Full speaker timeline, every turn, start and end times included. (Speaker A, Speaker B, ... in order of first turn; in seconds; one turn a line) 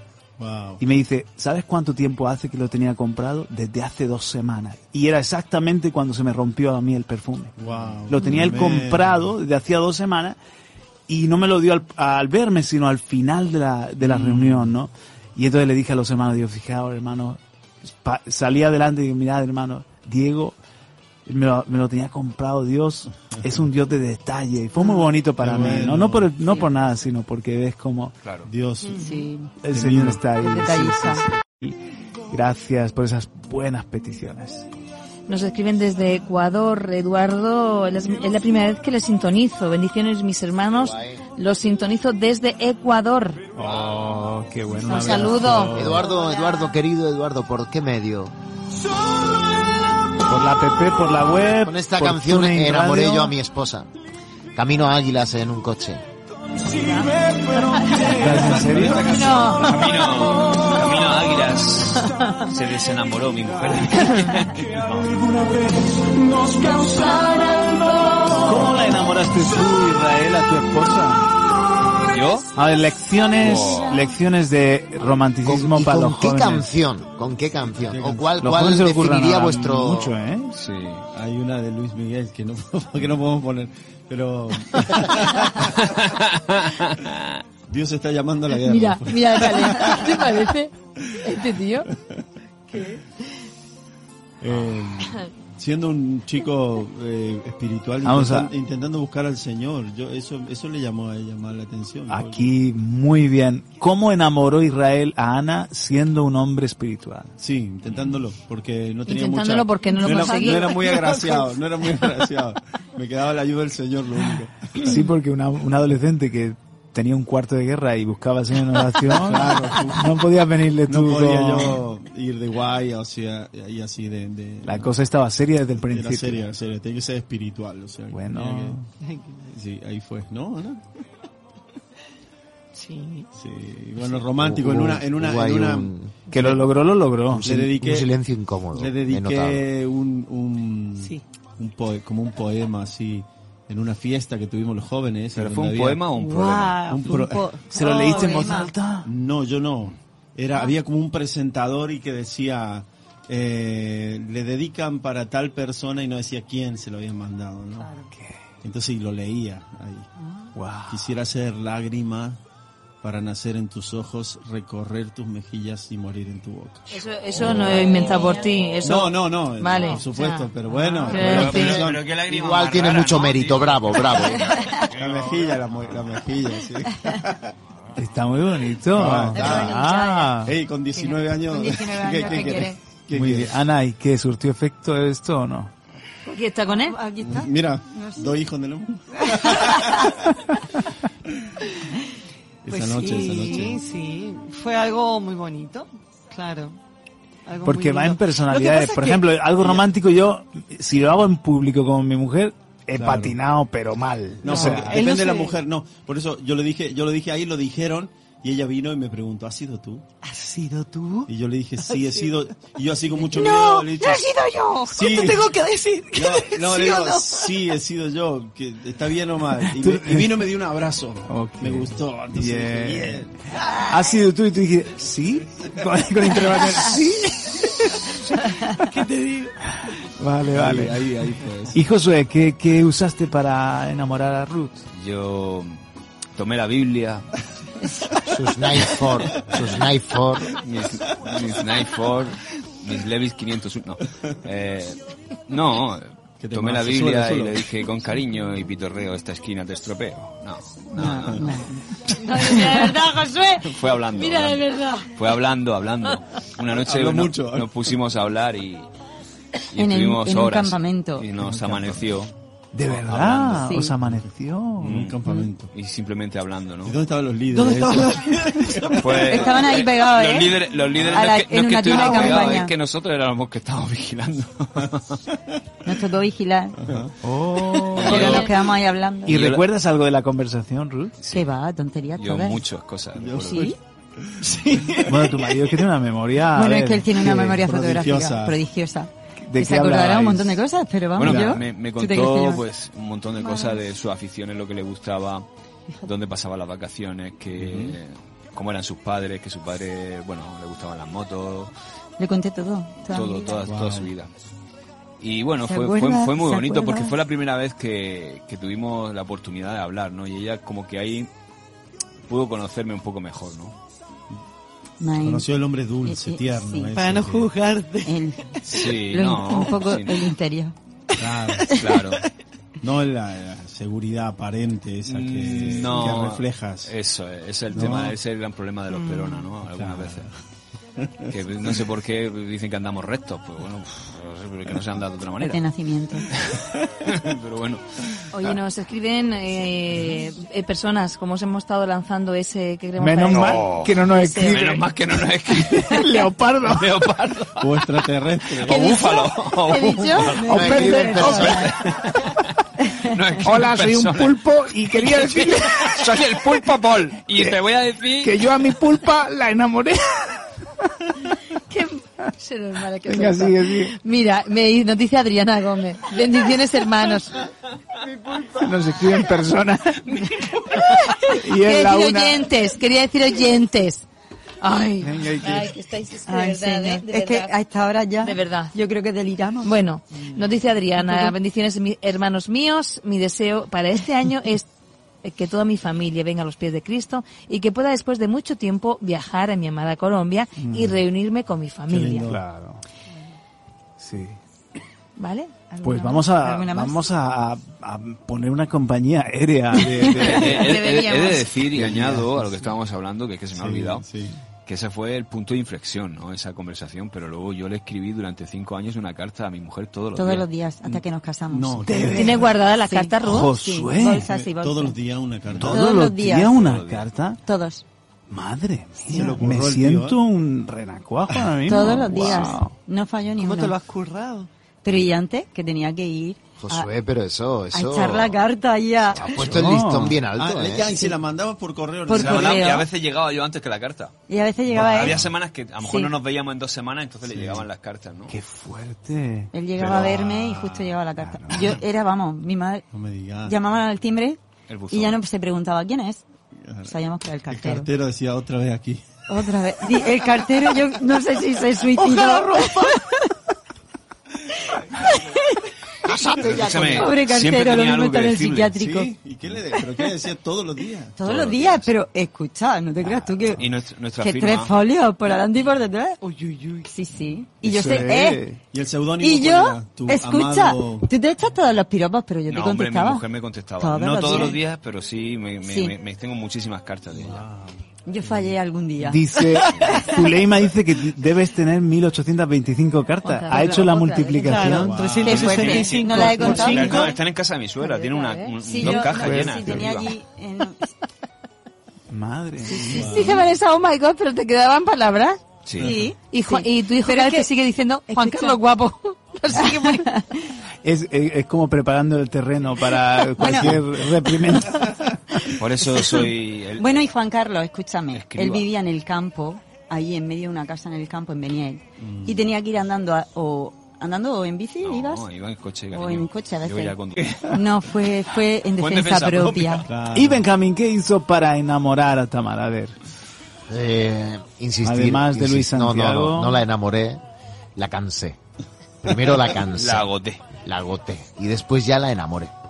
Speaker A: 0.4-0.8
Speaker B: 0.8-7.5
Speaker A: 7.6-9.2
Speaker B: 8.1-10.4
Speaker B: 11.1-20.6
Speaker A: 14.0-14.7
Speaker B: 21.2-28.1
Speaker A: 25.4-26.3
Speaker A: 28.4-29.0
Speaker C: 28.9-29.5
Speaker B: 29.6-31.8
Speaker A: 29.7-30.2
Speaker C: 30.3-31.2
Speaker B: 32.3-34.6
Speaker D: 35.3-43.4
Speaker E: 40.7-41.2
Speaker B: 43.5-46.1
Speaker D: 44.9-45.7
Speaker E: 45.7-48.3
Speaker B: 50.3-53.4
Speaker E: 51.6-53.9
Speaker E: 54.5-56.0
Speaker D: 56.8-57.1
Speaker D: 57.6-58.2
Speaker B: 58.0-59.3
Speaker F: 58.5-65.2
Speaker D: 59.0-59.9
Speaker D: 62.1-62.4
Speaker D: 66.7-68.3
Speaker B: 68.3-71.3
Speaker F: 72.1-72.5
Speaker B: 72.5-76.7
Speaker F: 73.4-74.0
Speaker E: 75.0-80.1
Speaker A: 77.7-78.3
Speaker B: 78.4-80.5
Speaker F: 80.5-81.0
Speaker A: 81.1-85.8
Speaker F: 85.8-87.4
Speaker A: 87.7-90.0
Speaker D: 88.6-90.7
Speaker D: 91.2-91.9
Speaker A: 94.4-102.5
Speaker B: 98.0-98.5
Speaker B: 102.1-107.3
Speaker A: 107.4-114.8
Speaker D: 109.0-111.3
Speaker B: 114.8-121.8
Speaker A: 119.1-120.1
Speaker A: 120.9-124.9
Speaker B: 124.6-126.4
Speaker A: 125.9-128.8
Speaker B: 128.1-128.8
Speaker G: 129.0-129.4
Speaker A: 129.5-130.9
Speaker G: 132.7-133.3
Speaker A: 133.4-135.9
Speaker E: 134.4-136.5
Speaker B: 136.3-137.5
Speaker E: 137.3-139.6
Speaker A: 137.4-138.1
Speaker A: 138.7-146.1
Speaker F: 145.3-146.8
Speaker G: 146.1-147.1
Speaker A: 146.8-147.5
Speaker C: 147.0-148.7
Speaker B: 147.7-149.1
Speaker G: 147.8-148.7
Speaker A: 149.0-157.9
Speaker G: 157.8-158.1
Speaker B: 158.1-158.4
Speaker A: 158.6-160.1
Speaker B: 160.5-161.1
Speaker A: 160.9-162.4
Speaker A: 163.0-166.9
Speaker D: 166.9-170.5
Speaker A: 167.4-168.0
Speaker C: 168.0-168.4
Speaker A: 168.8-172.1
Speaker D: 171.0-171.8
Speaker F: 171.1-175.4
Speaker E: 172.1-174.7
Speaker A: 174.9-177.5
Speaker B: 177.9-180.6
Speaker A: 178.9-179.9
Speaker C: 179.3-180.4
Speaker A: 180.4-183.6
Speaker C: 180.9-182.8
Speaker B: 183.1-185.7
Speaker D: 186.2-187.0
Speaker C: 186.7-188.3
Speaker A: 187.2-190.3
Speaker C: 189.3-190.0
Speaker A: 192.6-193.8
Speaker C: 192.7-193.6
Speaker G: 192.9-196.7
Speaker G: 197.4-199.4
Speaker B: 197.6-205.0
Speaker A: 202.9-203.3
Speaker A: 204.4-210.0
Speaker G: 204.4-205.6
Speaker G: 210.2-211.3
Speaker A: 211.3-214.3
Speaker G: 211.9-212.2
Speaker G: 213.3-217.5
Speaker A: 214.9-215.5
Speaker A: 216.1-223.3
Speaker B: 219.7-220.5
Speaker B: 221.2-228.2
Speaker G: 228.6-229.5
Speaker B: 230.2-231.0
Speaker A: 230.5-231.8
Speaker B: 231.7-234.8
Speaker F: 234.9-235.8
Speaker F: 236.3-237.4
Speaker E: 238.2-240.5
Speaker F: 240.5-251.7
Speaker A: 246.4-247.7
Speaker C: 250.9-252.9
Speaker A: 251.1-251.6
Speaker D: 252.1-255.1
Speaker F: 253.7-258.9
Speaker A: 256.6-257.8
Speaker F: 259.7-262.3
Speaker C: 259.8-261.2
Speaker A: 261.4-262.0
Speaker B: 262.7-265.0
Speaker F: 262.9-263.7
Speaker C: 263.6-263.9
Speaker F: 264.8-265.2
Speaker A: 264.8-265.7
Speaker F: 265.7-267.0
Speaker A: 266.8-269.4
Speaker G: 267.5-269.0
Speaker F: 268.9-275.2
Speaker C: 269.1-272.7
Speaker C: 275.8-276.8
Speaker A: 276.8-277.1
Speaker B: 277.2-278.4
Speaker F: 277.9-278.5
Speaker C: 277.9-279.4
Speaker D: 278.1-278.5
Speaker F: 279.2-279.6
Speaker B: 279.2-281.1
Speaker C: 281.3-282.6
Speaker F: 282.1-283.7
Speaker A: 283.1-285.1
Speaker C: 283.4-283.8
Speaker G: 284.5-285.0
Speaker B: 285.0-287.3
Speaker C: 286.5-292.6
Speaker A: 287.2-288.6
Speaker B: 289.4-290.6
Speaker F: 291.1-295.4
Speaker B: 291.2-291.5
Speaker F: 296.0-301.7
Speaker A: 297.6-297.9
Speaker C: 302.2-303.6
Speaker F: 303.1-304.3
Speaker A: 303.6-304.1
Speaker F: 305.2-311.3
Speaker C: 305.7-307.1
Speaker F: 312.3-313.7
Speaker C: 315.0-315.5
Speaker A: 315.2-317.5
Speaker C: 316.0-316.9
Speaker G: 316.9-318.2
Speaker C: 318.0-320.7
Speaker F: 318.6-320.3
Speaker A: 321.2-321.7
Speaker F: 321.7-322.2
Speaker A: 322.8-326.9
Speaker F: 325.1-330.3
Speaker A: 327.7-328.1
Speaker G: 328.9-329.5
Speaker A: 329.8-330.2
Speaker A: 331.0-331.3
Speaker F: 331.3-335.6
Speaker C: 335.4-336.3
Speaker F: 336.3-338.2
Speaker D: 338.3-344.6
Speaker B: 343.0-344.9
Speaker F: 343.3-343.9
Speaker F: 344.4-352.4
Speaker B: 345.5-346.9
Speaker A: 347.6-348.8
Speaker C: 348.7-351.7
Speaker D: 349.8-350.1
Speaker B: 350.4-351.6
Speaker E: 350.5-351.8
Speaker F: 353.0-354.4
Speaker B: 353.4-356.7
Speaker F: 354.9-358.6
Speaker B: 358.2-360.5
Speaker D: 361.7-367.3
Speaker B: 363.0-363.9
Speaker B: 368.6-370.3
Speaker D: 370.8-374.0
Speaker B: 371.2-372.5
Speaker D: 374.6-377.5
Speaker B: 375.0-375.7
Speaker C: 376.2-379.7
Speaker D: 378.2-378.7
Speaker D: 379.6-384.7
Speaker C: 381.0-381.3
Speaker D: 385.2-392.3
Speaker B: 390.6-391.0
Speaker A: 391.9-392.4
Speaker B: 392.2-392.8
Speaker B: 394.0-394.4
Speaker D: 395.2-395.5
Speaker C: 395.7-397.0
Speaker B: 395.8-400.7
Speaker D: 399.9-401.5
Speaker F: 400.1-404.1
Speaker B: 401.9-402.4
Speaker A: 401.9-402.2
Speaker A: 403.5-404.4
Speaker F: 404.6-410.5
Speaker C: 410.1-415.0
Speaker A: 411.5-412.4
Speaker B: 411.9-412.5
Speaker D: 412.1-413.5
Speaker B: 413.2-414.3
Speaker A: 414.2-416.0
Speaker B: 415.5-417.4
Speaker C: 415.6-416.6
Speaker F: 416.4-417.1
Speaker C: 417.4-417.8
Speaker B: 418.3-422.7
Speaker A: 419.1-420.2
Speaker C: 421.7-423.7
Speaker A: 422.0-422.4
Speaker G: 423.4-424.5
Speaker C: 424.8-426.9
Speaker E: 426.6-428.4
Speaker C: 427.7-429.4
Speaker E: 429.1-430.9
Speaker B: 429.3-430.2
Speaker A: 430.3-432.7
Speaker C: 432.0-432.9
Speaker F: 432.1-434.1
Speaker C: 434.3-435.2
Speaker F: 434.7-438.4
Speaker A: 434.7-435.2
Speaker A: 437.2-437.7
Speaker B: 438.3-439.5
Speaker C: 439.5-442.9
Speaker A: 439.7-441.8
Speaker B: 441.2-441.8
Speaker A: 442.9-443.6
Speaker C: 443.4-444.4
Speaker F: 444.7-445.2
Speaker C: 444.9-446.2
Speaker A: 446.6-446.9
Speaker C: 446.8-447.9
Speaker A: 447.5-449.0
Speaker C: 449.3-453.1
Speaker G: 452.0-452.9
Speaker C: 454.7-455.7
Speaker G: 456.1-456.9
Speaker F: 456.4-458.8
Speaker C: 456.9-459.1
Speaker A: 458.7-461.5
Speaker C: 461.1-463.6
Speaker F: 461.2-461.9
Speaker F: 463.6-464.7
Speaker C: 464.2-466.2
Speaker G: 466.2-466.9
Speaker C: 466.8-468.4
Speaker B: 467.6-468.6
Speaker A: 468.7-471.1
Speaker C: 469.2-473.2
Speaker F: 472.5-477.4
Speaker C: 473.8-474.6
Speaker C: 475.6-475.9
Speaker A: 477.1-478.6
Speaker C: 478.1-480.1
Speaker B: 479.0-485.1
Speaker D: 483.2-484.6
Speaker G: 484.4-487.1
Speaker A: 484.6-486.1
Speaker C: 485.2-487.1
Speaker F: 486.4-490.1
Speaker D: 487.8-488.5
Speaker C: 488.6-490.9
Speaker B: 488.8-489.8
Speaker B: 492.1-493.0
Speaker C: 492.6-493.4
Speaker A: 492.9-493.5
Speaker D: 492.9-495.4
Speaker F: 495.6-495.9
Speaker C: 495.8-497.5
Speaker D: 496.2-500.1
Speaker C: 498.1-498.6
Speaker C: 499.5-500.5
Speaker B: 500.8-505.0
Speaker C: 503.4-503.8
Speaker F: 505.6-507.1
Speaker C: 506.0-506.2
Speaker C: 506.8-515.2
Speaker F: 508.1-508.7
Speaker A: 512.0-512.4
Speaker F: 514.8-517.6
Speaker C: 515.9-519.9
Speaker F: 518.8-519.9
Speaker A: 519.9-520.4
Speaker B: 520.1-523.0
Speaker E: 523.7-527.2
Speaker B: 524.8-526.6
Speaker E: 527.8-528.4
Speaker E: 529.0-530.1
Speaker F: 529.7-530.4
Speaker E: 530.6-532.5